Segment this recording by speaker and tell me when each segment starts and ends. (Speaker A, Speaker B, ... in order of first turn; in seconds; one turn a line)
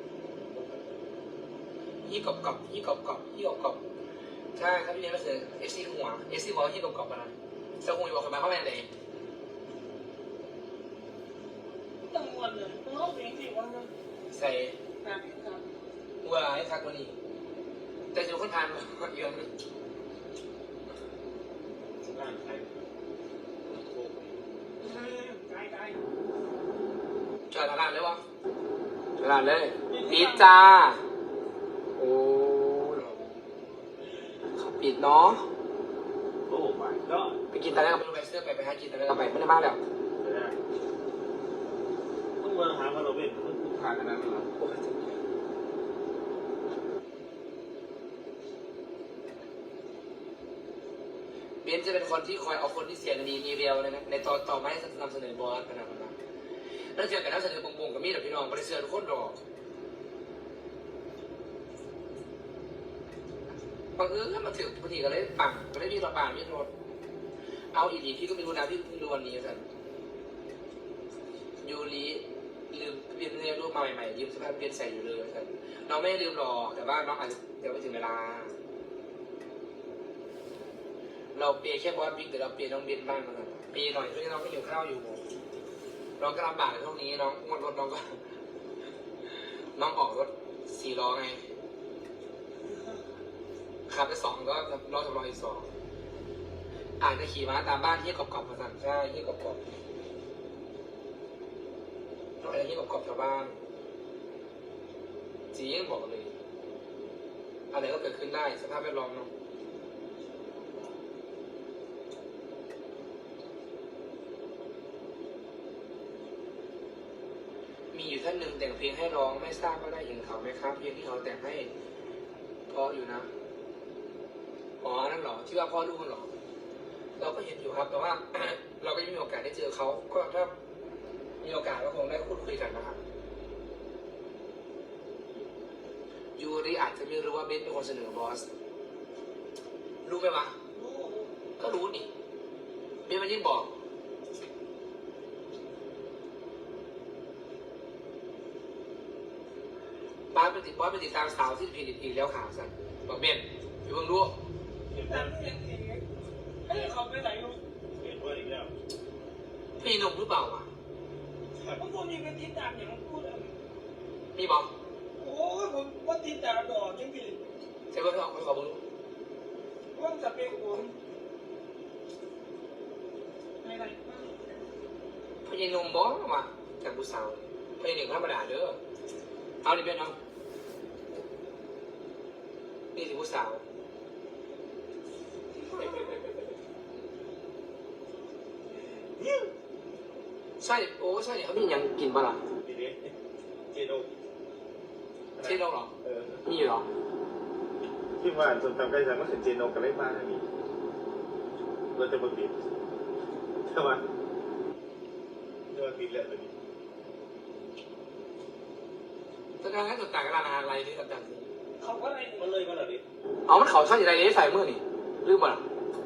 Speaker A: 0.5-1.0
Speaker B: 2.0-3.8
Speaker B: 4.5-8.9
Speaker C: 12.0-13.9
Speaker B: 14.3-14.8
Speaker C: 15.0-15.7
Speaker B: 16.2-17.1
Speaker B: 18.1-19.5
Speaker A: 22.0-22.8
Speaker A: 23.6-24.4
Speaker C: 24.8-26.0
Speaker B: 27.5-28.2
Speaker B: 29.2-31.0
Speaker C: 29.9-30.5
Speaker B: 32.0-33.2
Speaker B: 34.5-35.5
Speaker A: 36.5-37.4
Speaker B: 37.5-39.8
Speaker A: 40.2-40.6
Speaker A: 42.4-44.5
Speaker B: 44.5-45.1
Speaker B: 51.6-56.1
Speaker B: 56.9-59.4
Speaker B: 64.0-66.7
Speaker B: 67.7-69.6
Speaker B: 71.6-78.5
Speaker B: 81.3-85.2
Speaker B: 86.2-88.2
Speaker B: 89.8-91.4
Speaker B: 93.9-95.7
Speaker B: 97.0-99.6
Speaker B: 102.4-103.5
Speaker B: 105.5-106.3
Speaker B: 107.7-109.3
Speaker B: 117.9-121.7
Speaker B: 122.7-123.3
Speaker B: 124.8-126.3
Speaker B: 127.2-130.5
Speaker B: 131.4-133.0
Speaker B: 136.4-138.5
Speaker B: 140.0-140.5
Speaker C: 140.7-141.3
Speaker B: 141.6-142.1
Speaker B: 143.1-143.7
Speaker B: 150.3-154.4
Speaker A: 154.9-155.4
Speaker C: 155.0-156.0
Speaker C: 156.6-157.6
Speaker A: 157.9-158.7
Speaker B: 159.8-160.7
Speaker C: 161.8-163.6
Speaker B: 164.3-164.7
Speaker C: 165.2-167.4
Speaker B: 167.9-168.8
Speaker C: 169.9-170.9
Speaker C: 173.6-174.4
Speaker B: 175.4-178.8
Speaker B: 179.6-180.2
Speaker B: 182.9-183.6
Speaker B: 190.6-192.4
Speaker A: 192.6-193.1
Speaker A: 193.7-194.1
Speaker A: 195.3-196.4
Speaker B: 195.4-195.9
Speaker B: 196.4-196.8
Speaker A: 198.2-200.4
Speaker A: 201.9-202.6
Speaker A: 203.7-204.0
Speaker A: 205.7-206.5
Speaker B: 209.6-211.5
Speaker C: 211.8-212.5
Speaker A: 212.4-213.0
Speaker B: 213.4-215.6